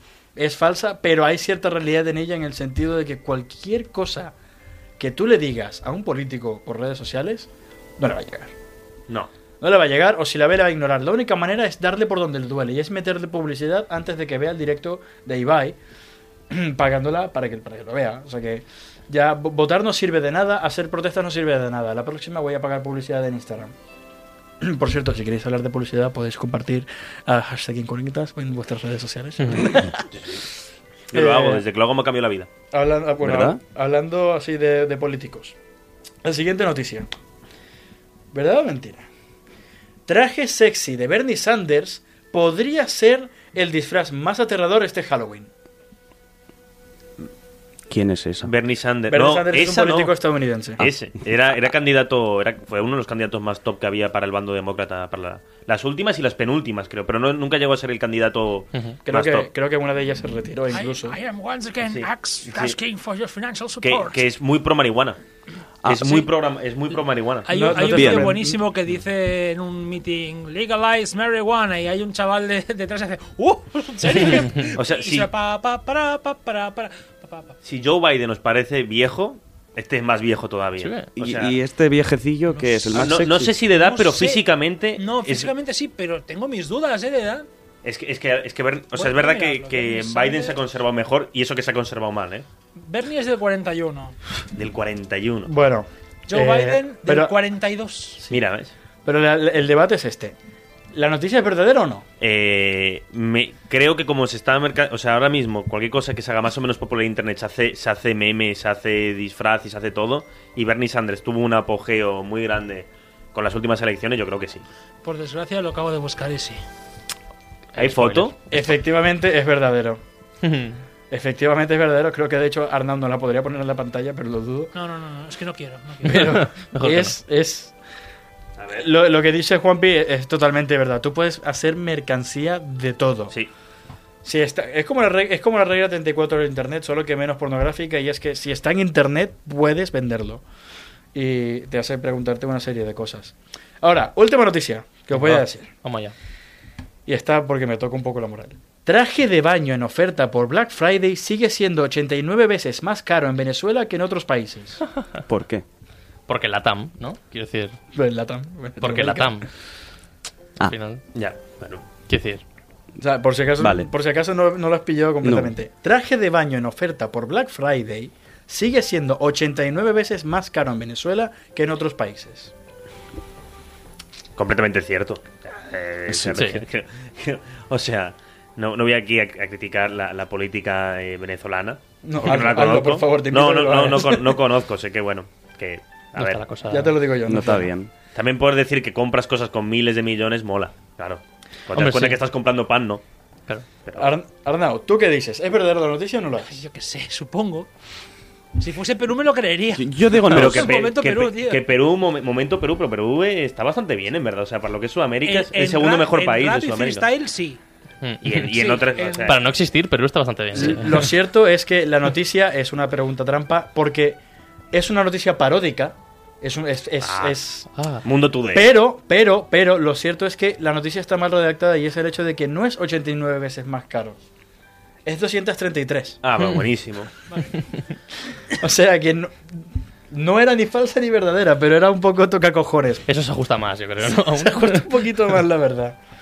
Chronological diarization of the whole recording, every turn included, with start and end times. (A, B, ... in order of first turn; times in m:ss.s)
0:00.4-0:04.3 A
0:05.0-0:08.5 A
0:09.6-0:15.8 A
0:16.5-0:23.7 A
0:24.6-0:30.1 A
0:30.2-0:30.4 B
0:31.1-0:32.5 B
0:31.1-0:31.6 A
0:32.7-0:35.6 A
0:33.2-0:33.6 C
0:36.2-0:37.1 A
0:38.3-0:39.1 A
0:40.1-0:45.5 A
0:47.9-0:48.5 C
0:48.4-0:50.1 B
0:49.1-0:50.9 A
0:50.8-0:59.5 B
0:59.1-1:01.2 A
1:00.7-1:04.2 D
1:01.9-1:02.8 B
1:03.8-1:05.2 B
1:05.8-1:06.3 C
1:05.8-1:07.5 B
1:07.5-1:17.6 D
1:07.5-1:08.6 A
1:07.8-1:08.3 C
1:14.1-1:15.3 B
1:17.6-1:21.6 B
1:20.8-1:21.1 E
1:21.2-1:23.6 C
1:22.5-1:23.0 D
1:22.9-1:25.5 B
1:23.8-1:24.4 D
1:25.0-1:27.5 D
1:27.8-1:32.5 B
1:28.9-1:30.6 D
1:32.8-1:34.2 D
1:34.6-1:35.5 B
1:35.5-1:37.4 A
1:36.3-1:38.2 D
1:38.3-1:38.7 B
1:39.0-1:40.4 A
1:40.9-1:42.1 A
1:42.2-1:54.6 B
1:55.0-1:56.6 D
1:57.8-1:58.3 E
1:57.8-1:58.4 B
1:58.5-2:00.0 A
2:00.4-2:00.8 E
2:01.1-2:04.7 A
2:04.7-2:06.4 D
2:06.0-2:07.7 A
2:06.4-2:07.2 E
2:08.6-2:08.9 B
2:08.7-2:13.4 A
2:14.2-2:20.4 A
2:21.1-2:25.7 A
2:25.1-2:26.1 E
2:27.1-2:34.8 A
2:35.3-2:35.6 C
2:36.3-2:37.8 E
2:37.9-2:39.4 A
2:38.8-2:39.5 E
2:40.6-2:41.0 E
2:41.2-2:41.8 B
2:42.1-2:42.4 E
2:43.0-2:52.5 A
2:43.6-2:43.9 C
2:45.2-2:45.5 C
2:54.4-3:06.4 B
2:56.1-2:56.6 C
2:56.3-2:56.6 E
3:02.0-3:04.4 A
3:06.2-3:07.0 E
3:06.7-3:07.7 A
3:07.3-3:07.9 C
3:08.2-3:13.0 B
3:11.7-3:12.2 E
3:13.8-3:14.1 B
3:14.0-3:16.6 A
3:16.4-3:17.7 D
3:18.6-3:21.6 D
3:19.7-3:20.8 C
3:20.3-3:27.1 B
3:25.2-3:27.6 D
3:28.0-3:28.3 E
3:28.2-3:29.4 B
3:28.4-3:29.4 D
3:29.3-3:31.1 E
3:30.6-3:34.2 A
3:34.7-3:37.7 A
3:37.0-3:37.4 B
3:37.7-3:38.0 E
3:38.0-3:38.7 B
3:38.5-3:44.2 A
3:45.0-3:46.2 A
3:46.2-3:47.1 B
3:48.5-3:49.5 A
3:50.1-3:53.1 A
3:53.1-3:54.9 E
3:54.0-3:56.0 A